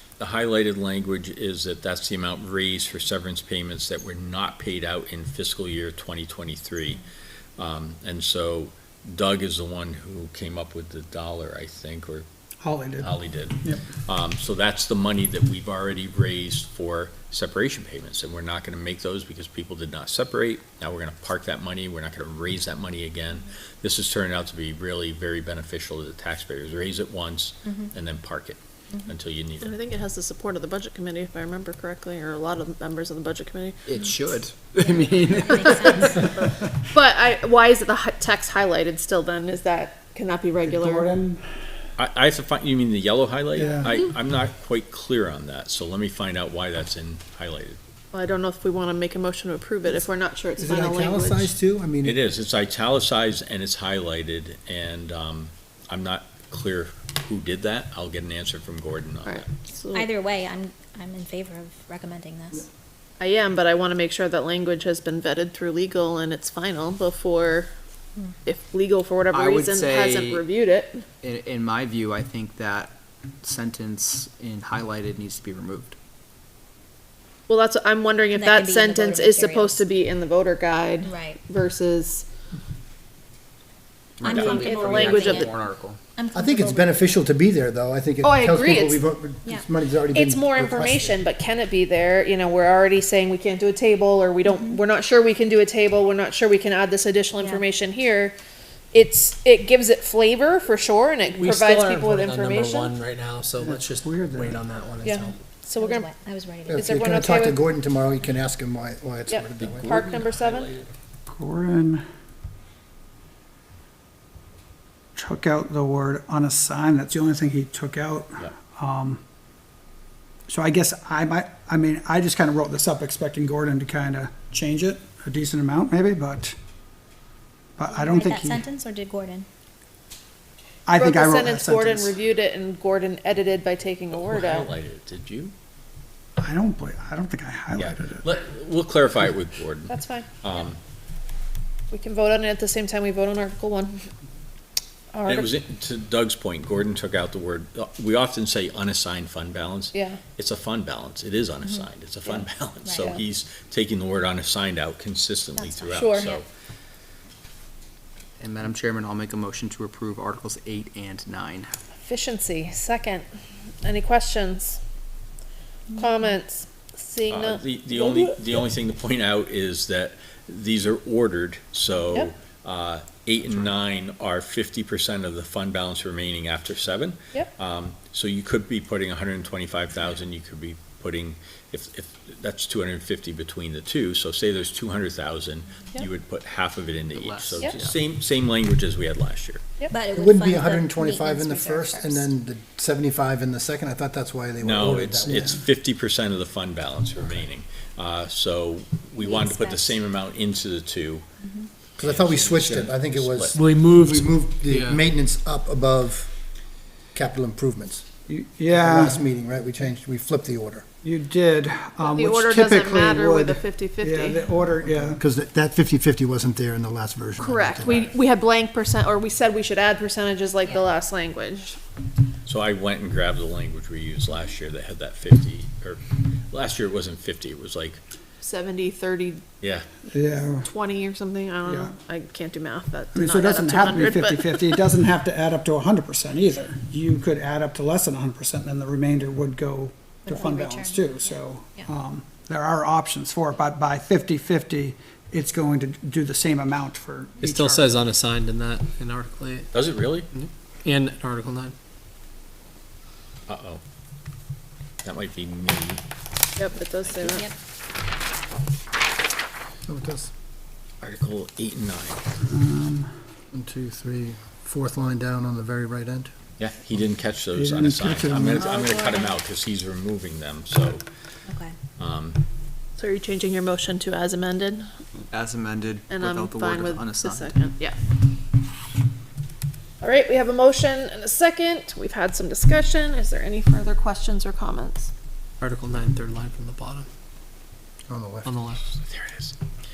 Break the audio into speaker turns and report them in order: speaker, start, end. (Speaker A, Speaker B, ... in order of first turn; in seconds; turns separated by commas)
Speaker A: 0.2-7.0, Speaker A: 7.6-12.3, Speaker B: 12.6-13.8, Speaker A: 13.0-29.8, Speaker C: 29.6-33.9, Speaker D: 33.9-36.7, Speaker E: 34.8-36.1, Speaker C: 35.6-36.3, Speaker C: 36.9-41.1, Speaker B: 40.6-41.4, Speaker A: 42.0-47.8, Speaker B: 43.6-43.9, Speaker C: 48.1-51.5, Speaker F: 50.6-52.2, Speaker A: 52.0-59.5, Speaker C: 59.2-60.1, Speaker E: 59.9-62.7, Speaker C: 63.2-67.7, Speaker C: 68.5-71.0, Speaker D: 69.3-70.5, Speaker D: 71.2-76.0, Speaker C: 77.5-82.3, Speaker E: 78.3-79.8, Speaker E: 81.0-81.4, Speaker D: 84.2-86.0, Speaker E: 84.2-85.6, Speaker C: 84.2-85.5, Speaker E: 86.2-86.9, Speaker F: 86.3-91.2, Speaker C: 88.2-89.0, Speaker C: 90.1-98.4, Speaker E: 94.5-94.8, Speaker E: 97.4-97.7, Speaker C: 98.9-102.9, Speaker G: 101.3-105.4, Speaker B: 103.6-104.6, Speaker C: 105.0-106.1, Speaker E: 105.8-107.0, Speaker F: 106.7-110.0, Speaker C: 106.7-107.6, Speaker C: 109.3-110.7, Speaker A: 109.6-110.9, Speaker B: 111.3-112.0, Speaker B: 115.2-119.2, Speaker B: 120.5-126.5, Speaker B: 127.8-128.6, Speaker E: 127.9-129.5, Speaker B: 130.9-132.2, Speaker C: 131.0-134.7, Speaker A: 134.1-135.5, Speaker B: 136.4-138.3, Speaker A: 137.8-140.8, Speaker C: 139.9-140.3, Speaker C: 141.9-144.1, Speaker C: 145.1-145.5, Speaker A: 145.3-156.4, Speaker C: 149.9-150.2, Speaker E: 155.6-156.4, Speaker C: 155.9-156.3, Speaker D: 158.4-161.8, Speaker C: 162.0-163.2, Speaker C: 163.8-164.8, Speaker E: 165.9-166.3, Speaker C: 166.0-168.3, Speaker A: 167.3-189.6, Speaker D: 187.2-187.9, Speaker E: 189.9-192.3, Speaker F: 190.1-195.6, Speaker A: 194.6-201.2, Speaker E: 199.2-200.0, Speaker E: 201.4-201.7, Speaker A: 202.0-203.6, Speaker F: 202.0-206.3, Speaker G: 203.5-205.0, Speaker F: 207.1-208.1, Speaker B: 208.3-209.2, Speaker F: 208.7-210.8, Speaker B: 211.0-215.2, Speaker C: 212.0-214.4, Speaker F: 214.8-218.1, Speaker C: 217.4-221.8, Speaker A: 222.5-228.0, Speaker C: 228.4-229.4, Speaker A: 229.6-229.9, Speaker B: 230.1-230.7, Speaker C: 230.6-234.8, Speaker B: 231.6-231.9, Speaker B: 233.2-248.0, Speaker E: 240.2-241.9, Speaker G: 247.4-251.8, Speaker A: 249.7-250.3, Speaker A: 253.5-253.8, Speaker A: 255.0-256.0, Speaker C: 256.6-257.5, Speaker F: 259.9-260.3, Speaker A: 261.0-262.3, Speaker B: 262.5-263.1, Speaker F: 263.5-266.3, Speaker A: 266.6-271.0, Speaker B: 267.5-268.8, Speaker C: 268.6-269.3, Speaker E: 271.5-271.8, Speaker A: 272.0-272.4, Speaker C: 273.0-274.9, Speaker D: 275.3-277.5, Speaker C: 276.1-278.0, Speaker C: 280.0-285.1, Speaker G: 285.6-287.1, Speaker F: 288.1-288.5, Speaker G: 288.4-288.8, Speaker A: 289.1-289.5